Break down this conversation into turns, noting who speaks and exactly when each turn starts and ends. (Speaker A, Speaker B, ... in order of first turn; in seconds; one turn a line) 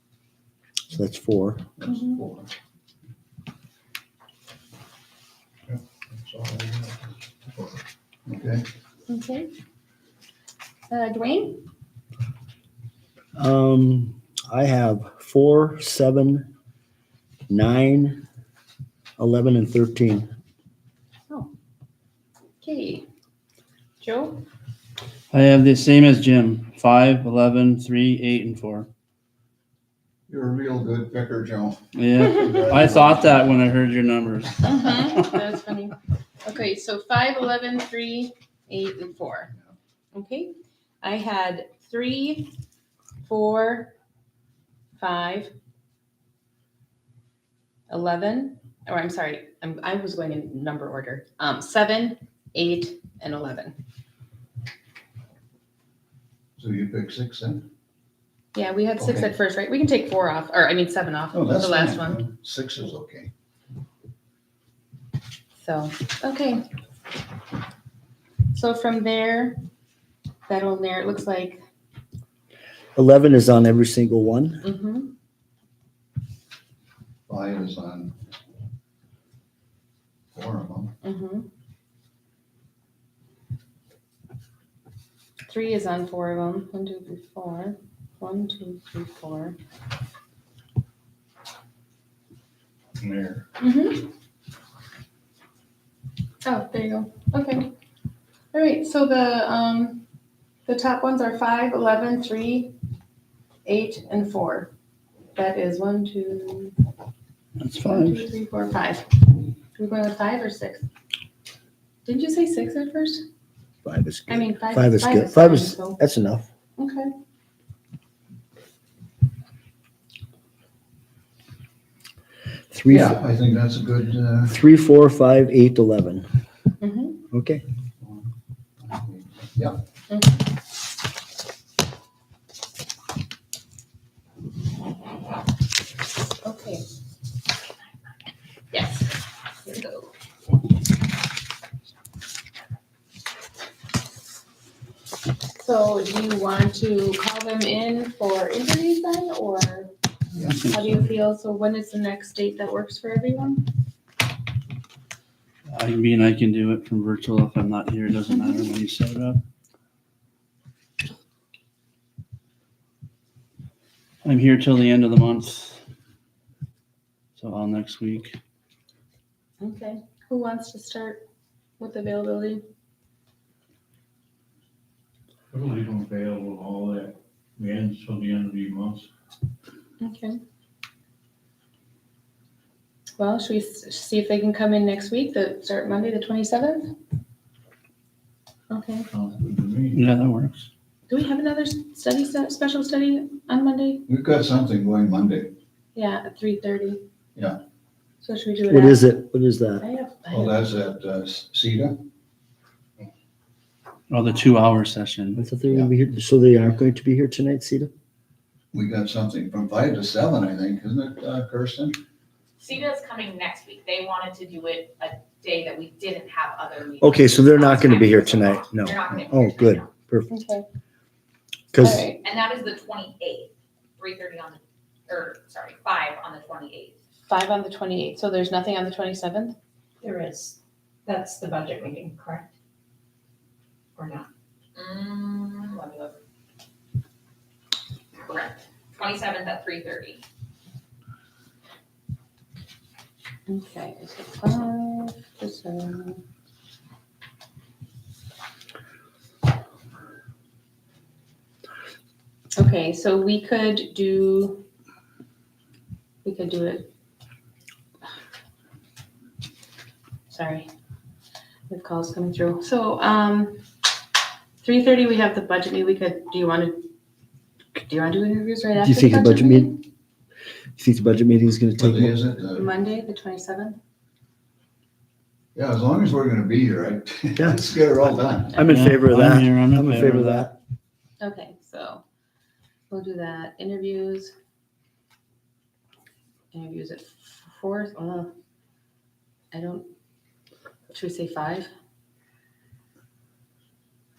Speaker A: 0.9-1.7
Speaker B: 1.8-2.5
Speaker C: 1.9-2.2
Speaker B: 5.7-8.7
Speaker C: 9.1-9.5
Speaker C: 10.9-11.7
Speaker A: 13.4-16.5
Speaker A: 17.5-18.2
Speaker A: 19.2-20.3
Speaker C: 22.6-23.1
Speaker C: 24.0-24.4
Speaker D: 25.3-28.9
Speaker B: 30.3-33.6
Speaker D: 31.9-35.3
Speaker C: 34.6-39.5
Speaker C: 40.1-42.5
Speaker C: 43.2-43.9
Speaker C: 45.0-45.5
Speaker C: 47.9-53.8
Speaker B: 56.6-57.7
Speaker C: 58.5-62.2
Speaker B: 59.0-59.3
Speaker B: 61.3-63.3
Speaker C: 65.6-66.7
Speaker C: 68.5-69.6
Speaker C: 70.5-71.6
Speaker A: 73.0-74.6
Speaker C: 74.6-75.1
Speaker B: 77.3-78.2
Speaker B: 80.3-80.9
Speaker C: 81.0-81.5
Speaker C: 85.5-89.6
Speaker B: 93.0-93.4
Speaker C: 93.6-94.1
Speaker C: 96.4-97.7
Speaker C: 98.5-100.0
Speaker C: 100.7-102.7
Speaker C: 103.7-104.7
Speaker C: 105.3-106.7
Speaker D: 107.6-108.2
Speaker C: 107.8-110.8
Speaker C: 112.0-113.2
Speaker A: 113.8-116.5
Speaker C: 114.3-116.0
Speaker C: 116.8-117.1
Speaker A: 122.7-123.2
Speaker B: 122.9-124.5
Speaker A: 124.5-126.3
Speaker C: 126.8-127.2
Speaker A: 127.3-127.6
Speaker B: 128.0-128.3
Speaker B: 128.8-129.8
Speaker C: 130.1-130.4
Speaker C: 136.4-136.8
Speaker C: 138.7-140.1
Speaker C: 145.6-149.9
Speaker C: 150.5-153.7
Speaker D: 155.7-159.4
Speaker D: 164.2-165.8
Speaker D: 167.4-168.3
Speaker C: 169.6-171.2
Speaker C: 171.8-172.6
Speaker E: 175.5-179.1
Speaker B: 175.6-177.0
Speaker B: 177.6-179.0
Speaker C: 180.0-180.4
Speaker C: 183.2-186.9
Speaker C: 188.7-189.1
Speaker B: 189.1-190.0
Speaker D: 189.9-190.7
Speaker C: 191.1-194.1
Speaker B: 194.1-195.5
Speaker C: 195.9-197.0
Speaker C: 198.2-199.2
Speaker A: 198.7-199.8
Speaker C: 199.8-200.6
Speaker B: 200.3-202.1
Speaker D: 204.1-205.4
Speaker A: 205.4-207.9
Speaker B: 208.7-212.0
Speaker F: 212.6-219.9
Speaker A: 217.0-220.3
Speaker C: 220.3-220.7
Speaker A: 221.7-222.1
Speaker C: 221.8-222.2
Speaker F: 222.2-226.9
Speaker C: 227.3-229.6
Speaker G: 230.0-232.5
Speaker F: 234.0-236.2
Speaker F: 238.2-240.2
Speaker C: 243.5-246.2
Speaker C: 252.6-254.7
Speaker C: 256.2-256.9
Speaker C: 260.3-260.7
Speaker C: 261.7-263.6
Speaker C: 264.6-266.9
Speaker C: 267.8-269.8
Speaker A: 268.8-269.8
Speaker A: 270.8-272.2
Speaker B: 271.8-272.7
Speaker C: 272.5-273.8
Speaker B: 275.6-278.7
Speaker A: 278.5-280.6
Speaker D: 278.7-280.5
Speaker C: 281.2-282.0
Speaker C: 282.9-284.3
Speaker C: 286.5-288.3
Speaker C: 289.5-289.9
Speaker C: 290.9-291.7